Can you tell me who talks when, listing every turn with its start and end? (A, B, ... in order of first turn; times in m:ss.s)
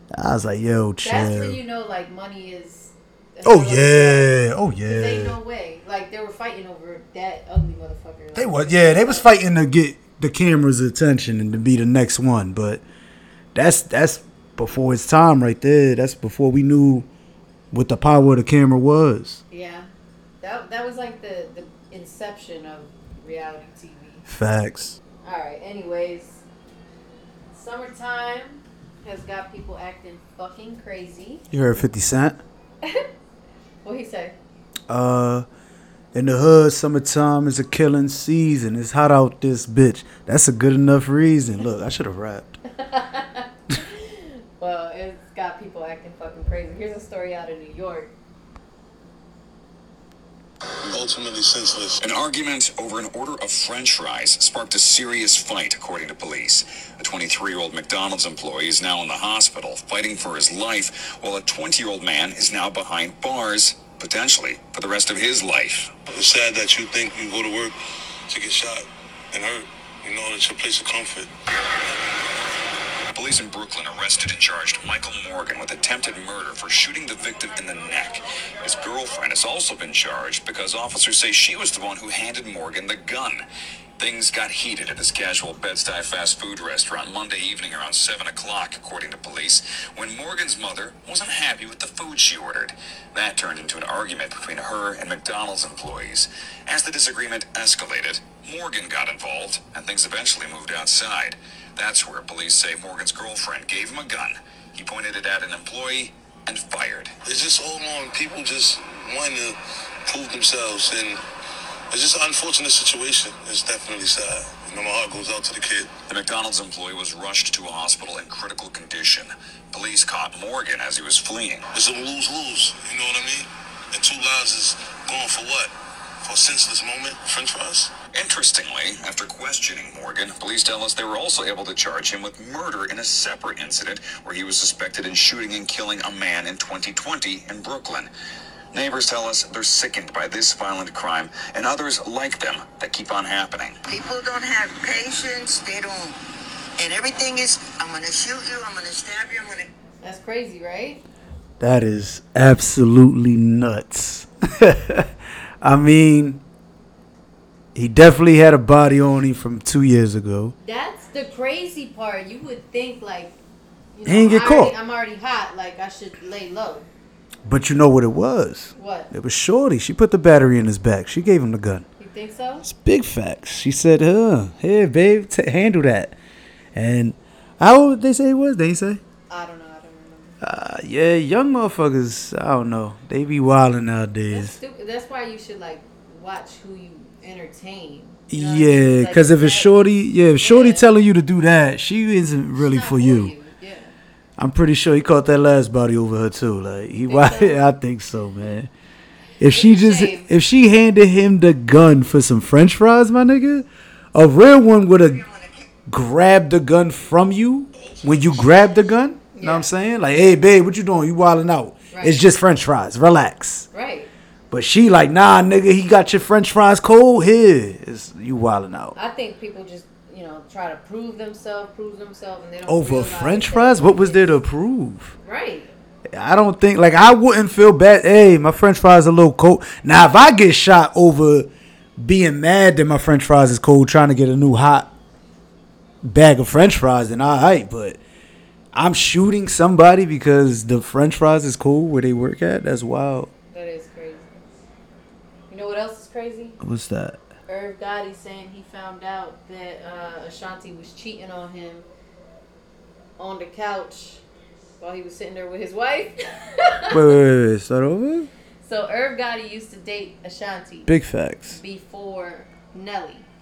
0:00.1-0:01.6 A
0:01.0-0:09.3 B
0:03.4-0:05.3 A
0:08.3-0:12.8 A
0:13.5-0:17.1 A
0:17.7-0:19.4 A
0:19.5-0:19.9 B
0:20.4-0:24.3 B
0:24.3-0:25.0 A
0:25.2-0:26.4 B
0:27.5-0:31.5 B
0:31.5-0:32.4 A
0:33.8-0:34.4 B
0:34.9-0:35.4 A
0:36.1-0:42.5 A
0:42.7-0:48.1 B
0:50.9-0:52.0 C
0:52.0-1:05.9 D
1:06.1-1:07.8 C
1:08.3-1:12.1 C
1:13.1-1:23.4 D
1:24.0-1:47.1 D
1:47.2-1:51.2 C
1:51.9-1:55.9 C
1:56.1-2:01.7 D
2:01.7-2:07.9 C
2:08.1-2:18.1 D
2:18.7-2:23.8 D
2:23.9-2:26.2 E
2:26.8-2:29.7 E
2:30.0-2:31.0 B
2:31.6-2:35.1 A
2:35.6-2:36.4 A
2:37.7-2:40.5 A
2:40.6-2:43.3 B
2:43.9-2:46.9 B
2:44.0-2:44.7 A
2:47.4-2:51.8 A
2:48.8-2:49.1 B
2:52.0-2:52.7 B
2:52.6-2:56.1 A
2:56.7-2:59.0 A
2:59.3-3:00.4 B
3:00.4-3:04.6 A
3:04.3-3:09.8 B
3:08.3-3:13.3 A
3:10.4-3:10.9 B
3:12.6-3:13.9 B
3:14.4-3:18.7 A
3:17.1-3:17.6 B
3:19.4-3:25.2 A
3:19.5-3:20.3 B
3:25.2-3:25.7 E
3:25.9-3:33.7 A
3:29.3-3:29.7 B
3:31.9-3:32.2 B
3:33.7-3:34.1 B
3:34.5-3:38.9 A
3:38.9-3:44.4 B
3:42.7-3:45.1 A
3:45.2-3:45.7 B
3:46.1-3:54.9 A
3:56.0-3:58.0 A
3:58.7-4:03.3 A
4:03.5-4:04.2 B
4:05.5-4:06.6 B
4:06.6-4:07.2 A
4:07.5-4:11.8 B
4:13.2-4:14.2 B
4:14.8-4:17.1 B
4:16.9-4:18.3 A
4:18.6-4:20.9 B
4:20.8-4:21.6 A
4:21.5-4:23.3 B